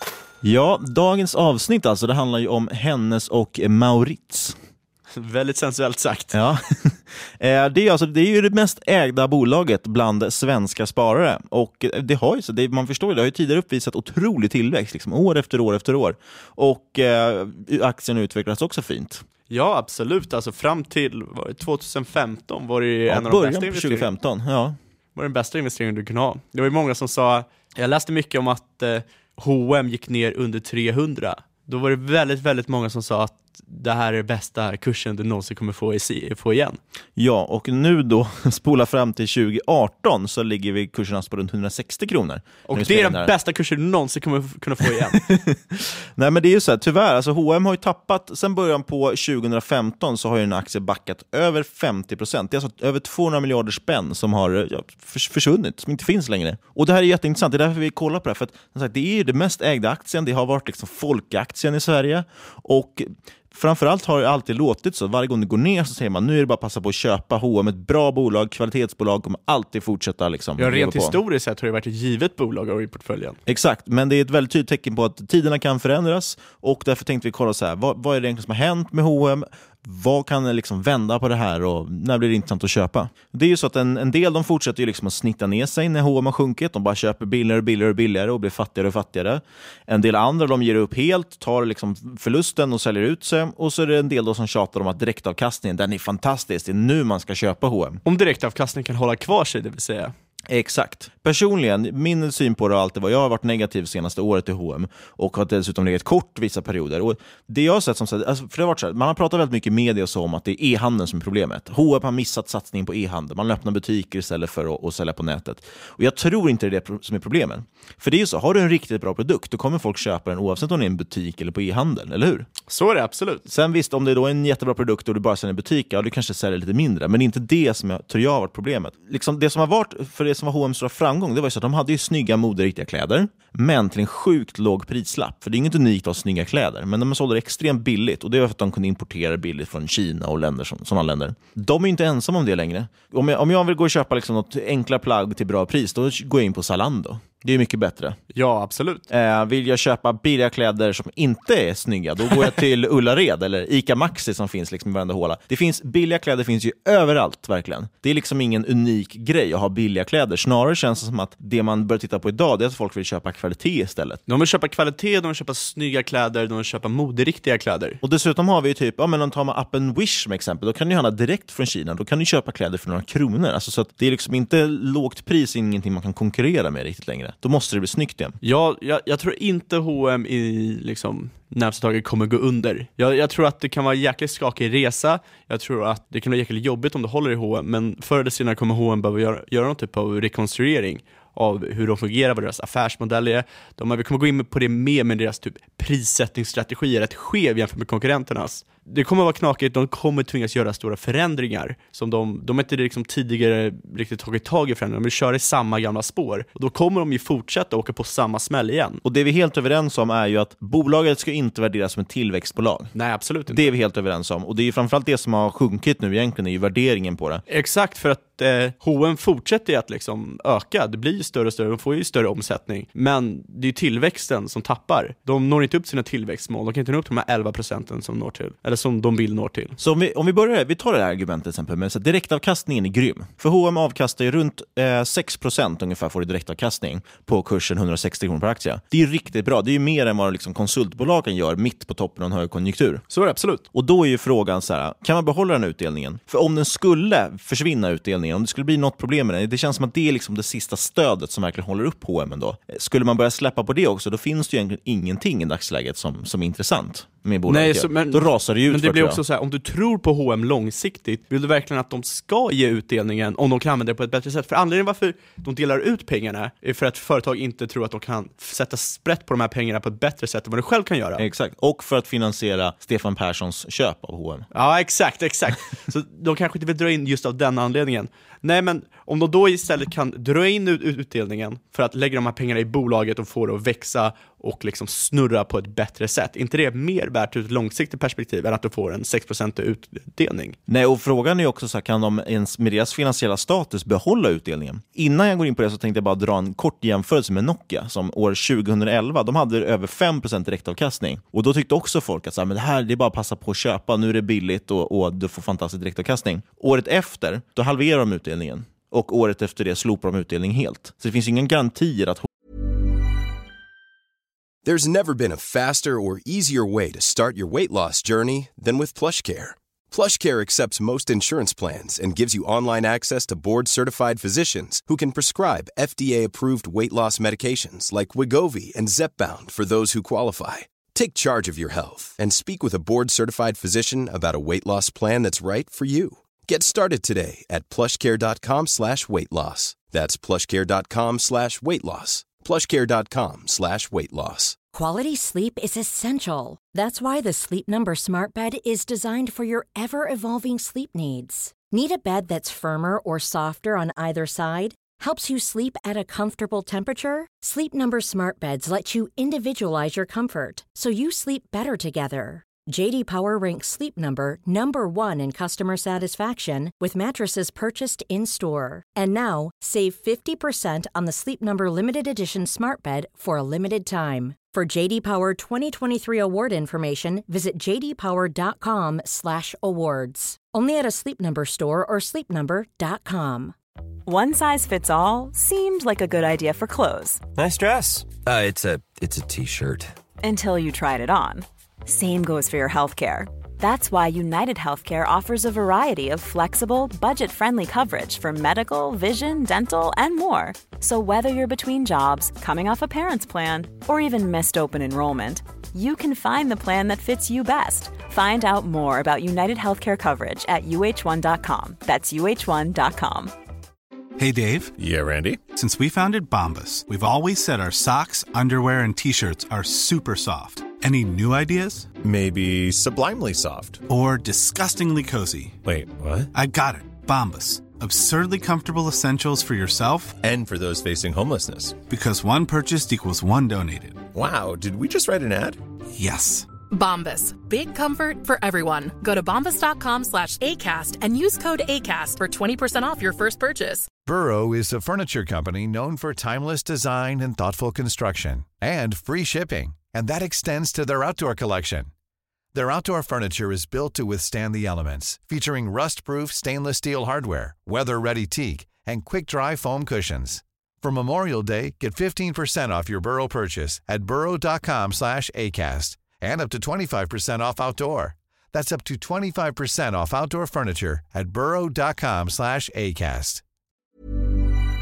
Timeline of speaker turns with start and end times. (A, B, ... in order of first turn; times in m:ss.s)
0:00.4-0:04.6 A
0:05.1-0:06.4 B
0:06.3-0:19.2 A
0:19.5-0:24.1 B
0:23.1-0:24.8 A
0:25.2-0:36.8 B
0:37.2-0:43.3 A
0:42.7-0:45.2 B
0:45.2-1:11.2 A
1:10.6-1:13.4 B
1:13.5-1:38.0 A
1:38.0-1:40.1 B
1:40.5-2:02.5 A
2:02.7-2:03.4 B
2:03.5-2:28.2 A
2:28.3-2:29.0 B
2:29.1-2:44.2 A
2:44.3-2:48.0 B
2:48.0-2:58.4 A
2:58.4-3:29.0 B
3:29.0-3:32.9 A
3:33.0-3:33.7 B
3:33.5-3:37.4 A
3:37.5-3:49.8 B
3:49.8-4:03.0 A
4:03.1-4:03.6 B
4:03.7-4:19.2 A
4:17.5-4:31.2 B
4:31.2-4:34.5 A
4:34.5-4:50.6 B
4:50.7-5:12.3 A
5:14.6-5:44.6 C
5:44.7-6:23.5 D
6:24.1-6:27.2 E
6:27.4-6:29.9 F
6:30.2-6:53.3 E
6:54.2-6:54.8 G
6:54.8-6:55.4 H
6:55.5-7:02.0 G
7:02.0-7:03.8 H
7:03.9-7:05.6 G
7:05.6-7:06.3 H
7:06.3-7:10.2 G
7:10.2-7:11.8 H
7:11.9-7:14.1 G
7:14.1-7:15.6 H
7:16.0-7:16.5 G
7:16.7-7:23.9 I
7:24.0-7:31.9 J
7:32.5-7:53.4 J